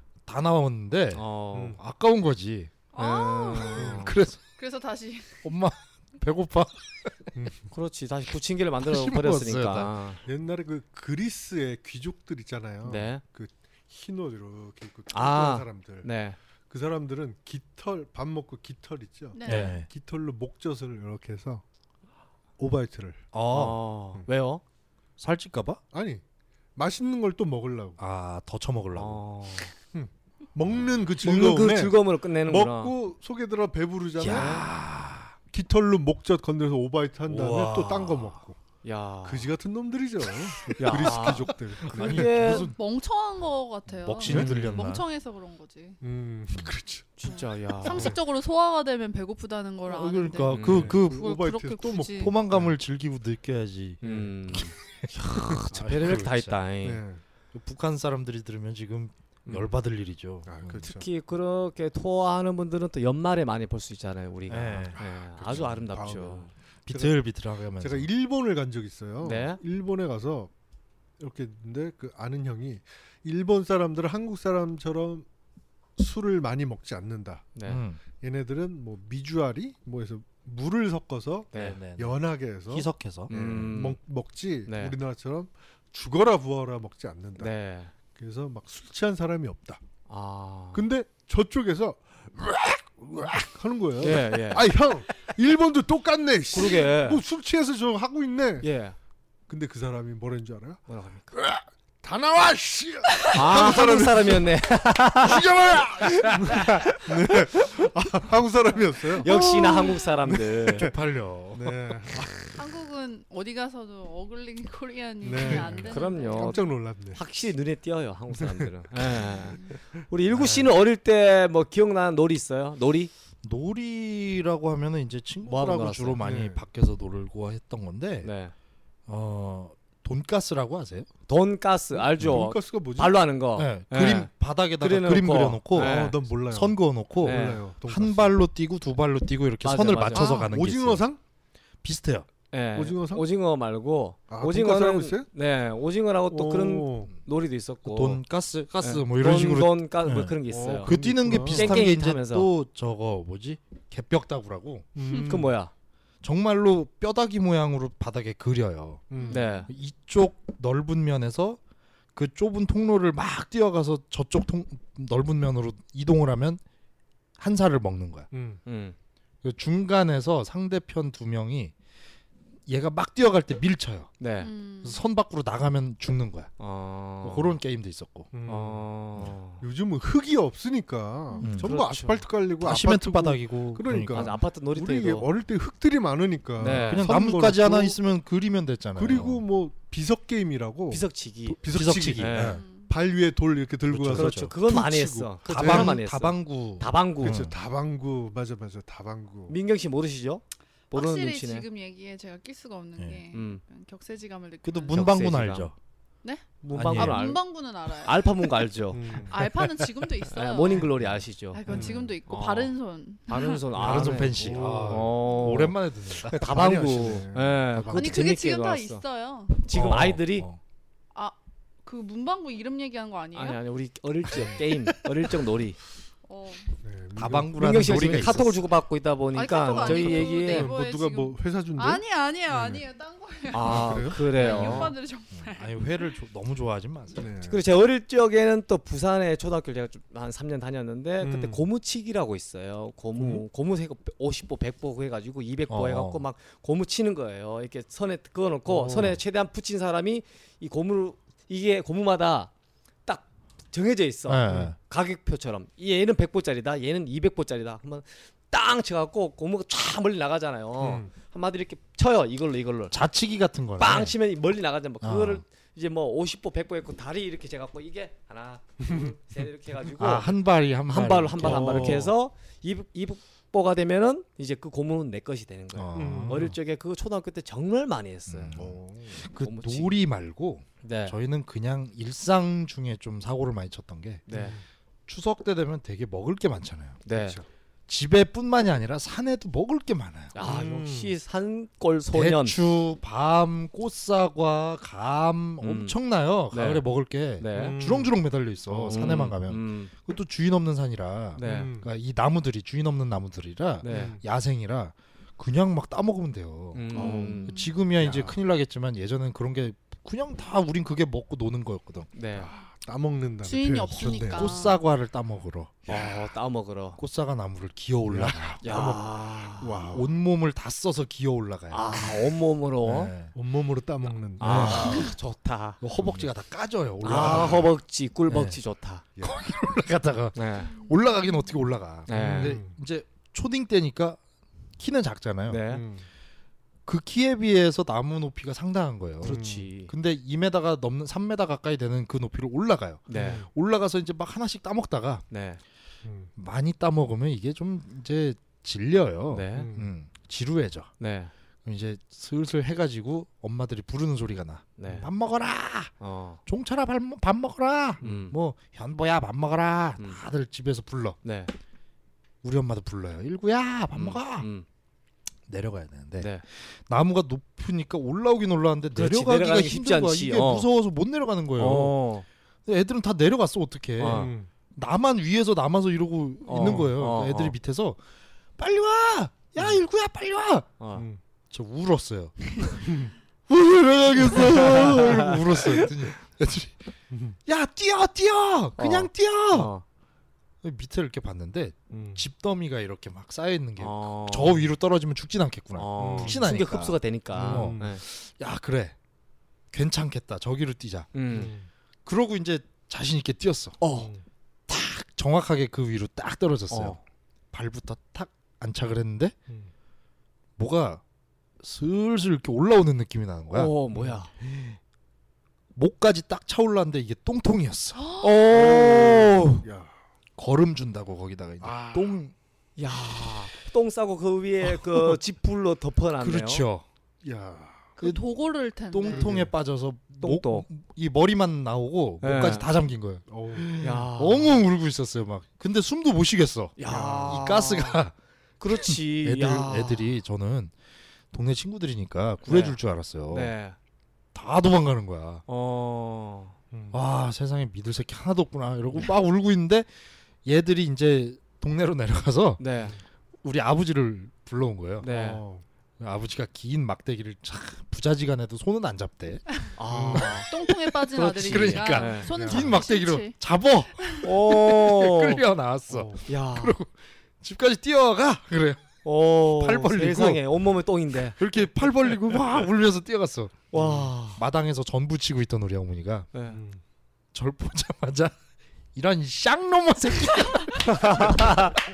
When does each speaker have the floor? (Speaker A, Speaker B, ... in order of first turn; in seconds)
Speaker A: 0.2-2.7, 3.5-4.4, 5.4-7.1, 8.8-9.9, 19.4-19.9, 23.3-23.8, 25.2-25.8, 28.0-29.2, 34.2-35.3, 37.2-38.4, 40.6-42.8, 43.9-45.0, 49.9-51.3, 52.2-56.6, 57.5-60.9, 64.5-65.7, 66.8-68.1, 77.7-78.0, 81.5-82.2, 82.7-83.7, 105.2-106.8, 110.8-112.0, 123.4-128.3, 129.1-131.1, 133.5-141.0, 141.8-142.3, 147.8-154.9, 156.2-159.0, 159.7-161.6, 162.1-166.6, 167.4-168.3, 169.4-171.7, 172.7-174.1, 174.8-176.5, 177.2-178.3, 181.4-181.8, 182.6-184.3, 186.7-189.4, 191.6-192.6, 193.9-194.5, 195.5-197.6, 203.0-203.2, 204.6-205.7, 206.7-207.4, 211.0-211.2, 213.7-216.9, 219.7-220.6, 227.2-228.6, 235.3-237.3, 245.7-246.2, 254.2-254.8, 262.9-264.1, 265.0-265.4, 269.9-272.1, 275.7-276.6, 278.3-284.3, 285.1-287.0, 287.9-290.4, 292.1-312.1, 314.2-315.8, 317.0-319.1, 319.9-322.1, 322.8-323.3, 324.4-325.1, 325.8-327.7, 328.3-328.6, 329.2-334.2, 334.8-335.6, 336.9-345.2, 346.4-350.9, 351.6-355.9, 356.4-361.2, 362.4-364.5, 365.5-371.9, 372.6-378.0, 378.6-380.7, 381.5-382.9, 383.5-386.8, 387.5-389.7, 390.6-398.9, 399.7-401.1, 402.0-403.8, 404.7-407.0, 407.5-409.3, 410.6-411.0, 411.6-413.7, 414.4-414.8, 415.7-419.6, 420.4-422.3, 424.6-425.2, 426.2-426.8, 428.9-438.1, 438.7-440.7, 441.3-443.5, 444.3-445.4, 446.9-449.9, 450.4-452.6, 453.4-455.1, 456.0-459.6, 460.1-468.8, 469.5-470.4, 471.3-476.3, 477.3-478.3, 478.9-481.8
Speaker B: 1.1-1.8, 3.0-4.2, 7.7-10.2, 12.8-13.2, 15.1-16.4, 23.5-24.6, 28.9-29.7, 31.2-33.0, 34.2-34.7, 38.8-39.5, 40.8-42.7, 44.2-44.9, 47.2-48.2, 50.5-50.9, 54.0-57.0, 60.8-66.5, 69.2-69.6, 77.5-77.8, 81.5-81.8, 83.3-84.0, 84.6-85.0, 87.4-87.9, 90.1-90.9, 94.0-94.7, 96.5-97.2, 98.6-99.0, 100.9-101.3, 103.3-105.5, 106.2-106.9, 109.2-110.9, 115.5-123.1, 125.4-126.2, 128.2-128.5, 131.3-136.2, 137.2-137.6, 139.6-140.4, 142.5-148.2, 148.8-152.5, 155.1-155.7, 159.2-159.7, 168.7-168.9, 174.2-174.5, 176.6-177.6, 178.4-179.6, 181.6-182.2, 184.1-185.3, 186.6-187.1, 190.9-192.6, 194.1-197.4, 199.5-201.7, 203.3-203.6, 204.9-205.7, 206.6-209.6, 210.2-212.7, 213.3-219.0, 219.6-220.5, 223.3-225.8, 227.5-230.7, 233.5-234.9, 237.4-252.5, 253.1-263.0, 263.8-278.6, 279.4-280.0, 280.8-281.1, 284.3-284.6, 287.0-287.4, 290.3-292.6, 295.6-295.9, 296.5-296.9, 297.4-297.8, 298.7-299.9, 301.4-301.7, 303.8-304.2, 306.7-307.7, 312.1-312.5, 315.9-317.0, 318.6-319.9, 321.7-323.1, 324.4-325.8, 327.0-329.0, 330.3-330.8, 332.1-332.6, 335.5-335.8, 339.2-339.9, 343.1-343.4, 345.3-345.6, 349.3-349.7, 351.0-351.3, 354.8-355.1, 356.0-356.4, 358.0-358.3, 361.2-361.5, 363.9-364.6, 366.2-366.4, 368.9-370.7, 371.6-372.2, 374.0-374.3, 376.4-377.6, 380.8-381.1, 384.3-385.9, 388.8-389.8, 393.8-394.6, 395.7-398.0, 401.1-401.5, 403.8-404.1, 406.7-407.0, 413.5-414.3, 418.2-419.6, 422.8-426.6, 430.2-430.6, 432.2-432.7, 433.8-434.6, 436.8-438.0, 438.6-440.1, 442.4-442.8, 443.3-443.8, 445.5-446.6, 452.6-453.0, 455.0-455.4, 459.8-460.5, 461.1-462.3, 464.2-465.4, 466.3-466.8, 469.0-471.4, 473.7-474.4, 476.3-476.6, 480.9-481.7
Speaker C: 1.5-1.8, 3.8-4.0, 7.3-7.7, 10.2-16.1, 16.7-21.6, 22.6-23.2, 25.9-26.2, 26.8-28.0, 29.9-34.7, 35.5-38.6, 39.2-42.4, 44.3-44.5, 46.0-47.1, 47.9-48.2, 50.6-52.7, 54.0-54.3, 55.5-55.9, 56.8-57.2, 60.4-61.1, 65.0-67.2, 67.8-70.5, 71.2-75.2, 76.0-77.5, 78.1-87.5, 88.1-89.8, 90.7-98.7, 99.5-100.8, 101.3-104.6, 106.0-109.3, 110.3-110.9, 111.5-112.6, 115.2-117.2, 118.3-119.6, 120.3-120.7, 126.2-126.6, 131.9-133.2, 135.8-138.4, 140.2-141.2, 142.7-143.2, 144.3-145.3, 146.3-147.1, 150.5-151.9, 154.9-155.6, 159.1-159.4, 168.3-168.6, 178.3-178.9, 179.6-188.0, 188.9-196.0, 197.2-199.6, 208.9-209.4, 211.7-212.1, 213.7-215.1, 216.2-218.3, 224.3-224.7, 226.8-228.5, 229.6-232.8, 233.6-234.9, 237.1-237.6, 241.2-241.6, 243.2-243.4, 248.7-249.2, 260.8-261.1, 268.8-269.1, 271.4-272.1, 275.9-276.5, 278.5-279.2, 284.3-284.6, 287.1-287.5, 290.4-291.1, 297.5-298.2, 301.4-301.9, 303.9-304.2, 306.9-308.4, 312.3-314.5, 315.9-316.2, 318.1-319.0, 319.6-320.1, 323.3-325.1, 326.0-326.3, 327.1-327.6, 329.1-329.5, 332.1-332.8, 335.7-336.1, 339.2-339.7, 343.1-343.5, 346.0-346.3, 349.5-349.9, 374.1-374.5, 376.6-376.9, 380.9-381.2, 382.8-383.1, 384.7-385.0, 387.1-387.4, 391.9-392.2, 396.0-396.4, 397.3-398.0, 401.3-401.7, 403.9-404.2, 413.9-414.2, 418.5-419.9, 421.6-422.2, 427.2-427.9, 429.1-429.5, 433.3-433.9, 436.8-437.5, 446.7-447.0, 455.0-455.6, 459.9-460.4, 462.3-462.7, 465.9-466.2, 473.7-474.1, 476.5-476.8
Speaker D: 2.9-5.4, 19.3-19.7, 42.4-46.0, 47.2-52.4, 109.2-110.1, 112.5-116.7, 140.2-140.5, 155.0-155.3, 159.2-159.6, 174.4-175.0, 192.5-192.9, 200.9-205.0, 206.2-208.7, 209.3-210.9, 211.5-213.6, 217.9-219.7, 221.1-223.6, 226.3-226.8, 229.3-236.1, 313.4-314.8, 330.7-331.3, 417.9-418.4, 428.0-429.3, 460.3-463.4